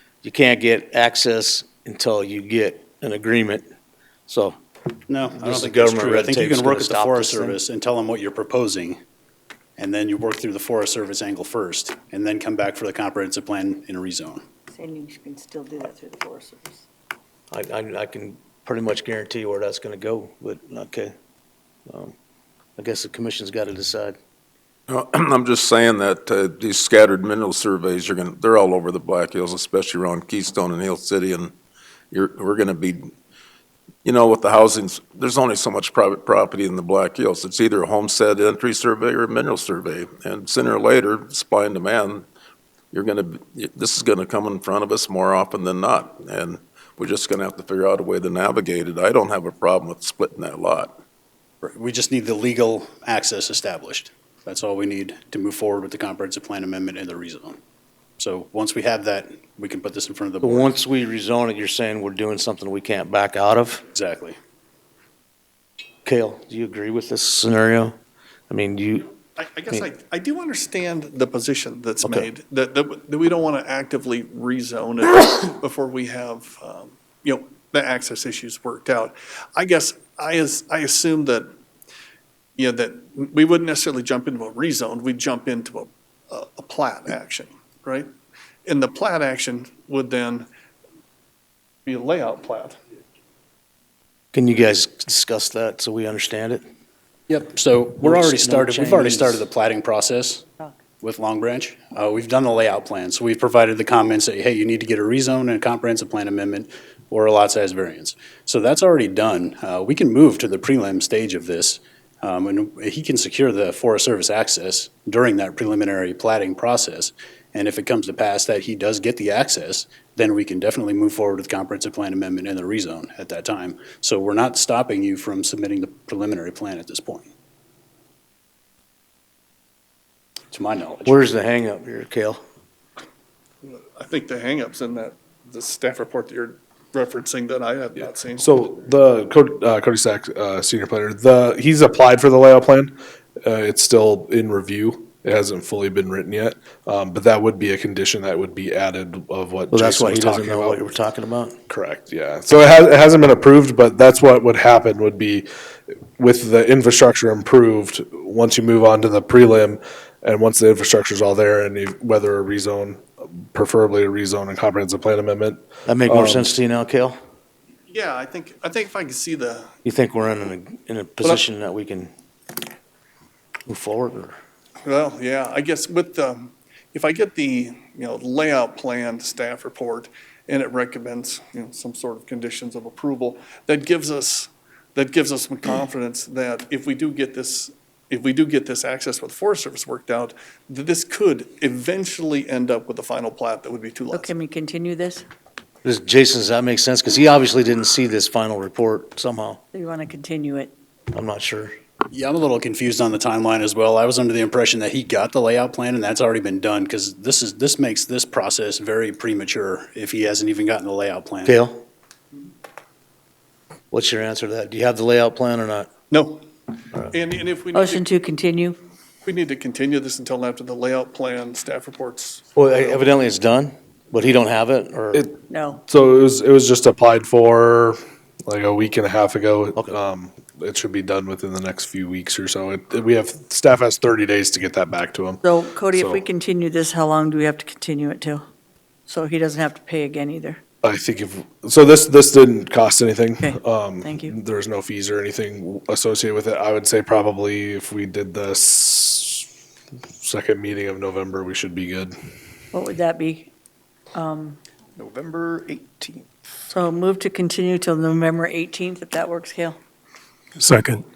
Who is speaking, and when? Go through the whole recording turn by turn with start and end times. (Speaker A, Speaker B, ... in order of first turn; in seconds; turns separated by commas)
Speaker A: 0.2-3.6, Speaker A: 4.3-4.6, Speaker B: 5.1-9.0, Speaker A: 5.4-7.6, Speaker B: 9.8-14.4, Speaker C: 14.7-16.8, Speaker A: 17.5-21.1, Speaker A: 21.9-22.1, Speaker A: 22.8-24.2, Speaker D: 24.9-31.5, Speaker D: 32.1-33.1, Speaker D: 34.0-42.2, Speaker D: 42.9-51.0, Speaker B: 51.6-57.6, Speaker B: 58.2-60.8, Speaker A: 60.4-63.8, Speaker B: 63.9-64.4, Speaker A: 66.0-68.0, Speaker A: 68.5-69.1, Speaker E: 69.4-81.5, Speaker A: 72.0-72.3, Speaker E: 82.6-88.1, Speaker E: 88.7-90.5, Speaker E: 91.9-92.8, Speaker A: 94.3-96.6, Speaker B: 97.3-100.5, Speaker A: 98.0-99.5, Speaker B: 101.0-127.3, Speaker B: 130.5-131.2, Speaker A: 131.1-132.4, Speaker E: 133.7-138.5, Speaker F: 138.4-150.8, Speaker A: 149.7-151.6, Speaker F: 151.7-155.5, Speaker F: 156.2-166.5, Speaker A: 165.9-167.2, Speaker E: 167.9-169.7, Speaker A: 169.8-172.1, Speaker A: 173.7-174.4, Speaker E: 174.8-194.3, Speaker C: 194.1-195.3, Speaker A: 195.8-199.6, Speaker C: 199.7-200.7, Speaker A: 201.1-201.7, Speaker B: 202.1-211.6, Speaker A: 211.4-211.8, Speaker A: 213.9-215.9, Speaker E: 216.1-216.4, Speaker E: 217.0-218.1, Speaker C: 217.7-218.8, Speaker E: 219.2-223.1, Speaker A: 222.6-225.2, Speaker C: 225.5-225.8, Speaker F: 225.9-236.2, Speaker C: 235.4-238.4, Speaker C: 239.1-240.6, Speaker F: 240.8-249.5, Speaker C: 243.4-244.3, Speaker F: 250.2-252.1, Speaker C: 252.7-253.5, Speaker C: 254.1-254.6, Speaker E: 255.0-255.8, Speaker C: 256.7-259.8